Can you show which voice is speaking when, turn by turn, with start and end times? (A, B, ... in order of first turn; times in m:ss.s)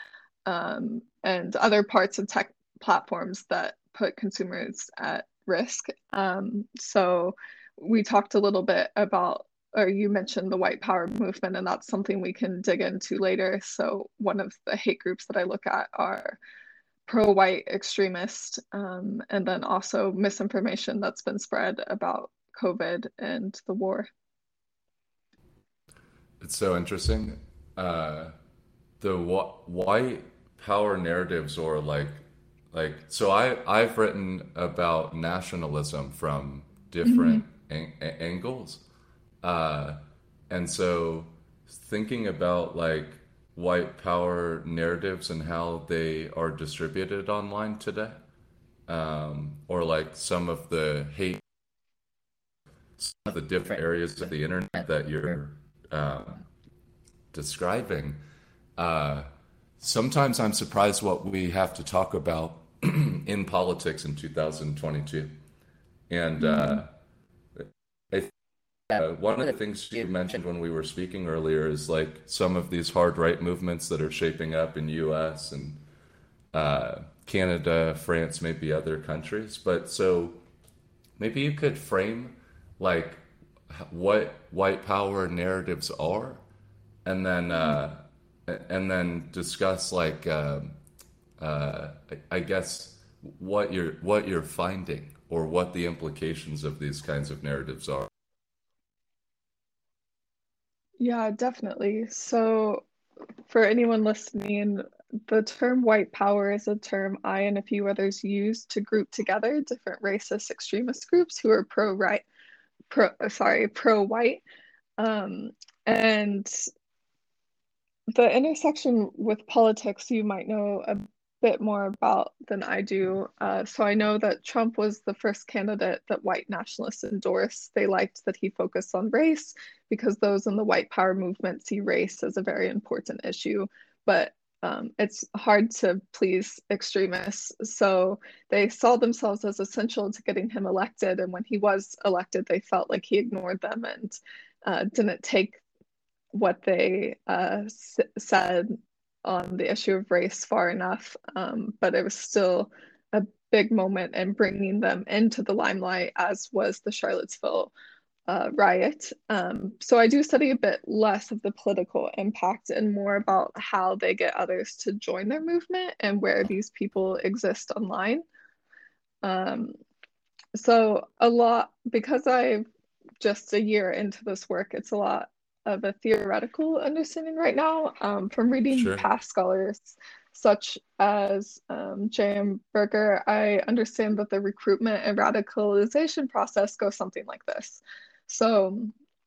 0:00.5-0:16.4 A
0:17.1-0:24.1 A
0:26.4-0:28.3 B
0:29.0-0:38.8 B
0:37.0-0:37.4 A
0:39.4-0:48.2 B
0:48.9-0:51.4 B
0:53.0-0:56.4 B
0:57.3-0:58.2 B
0:58.8-1:05.3 B
1:06.1-1:06.9 B
1:06.4-1:06.8 A
1:07.6-1:08.3 B
1:08.9-1:15.8 B
1:16.5-1:20.4 B
1:21.2-1:26.4 B
1:27.0-1:30.8 B
1:27.5-1:27.8 A
1:31.4-1:38.1 B
1:41.0-1:42.8 A
1:43.5-1:52.2 A
1:52.9-1:54.4 A
1:55.0-1:56.6 A
1:58.2-2:25.6 A
2:26.3-2:37.7 A
2:38.3-2:48.2 A
2:49.2-2:49.7 A
2:50.6-2:52.7 A
2:53.2-3:09.0 A
2:58.7-2:59.1 B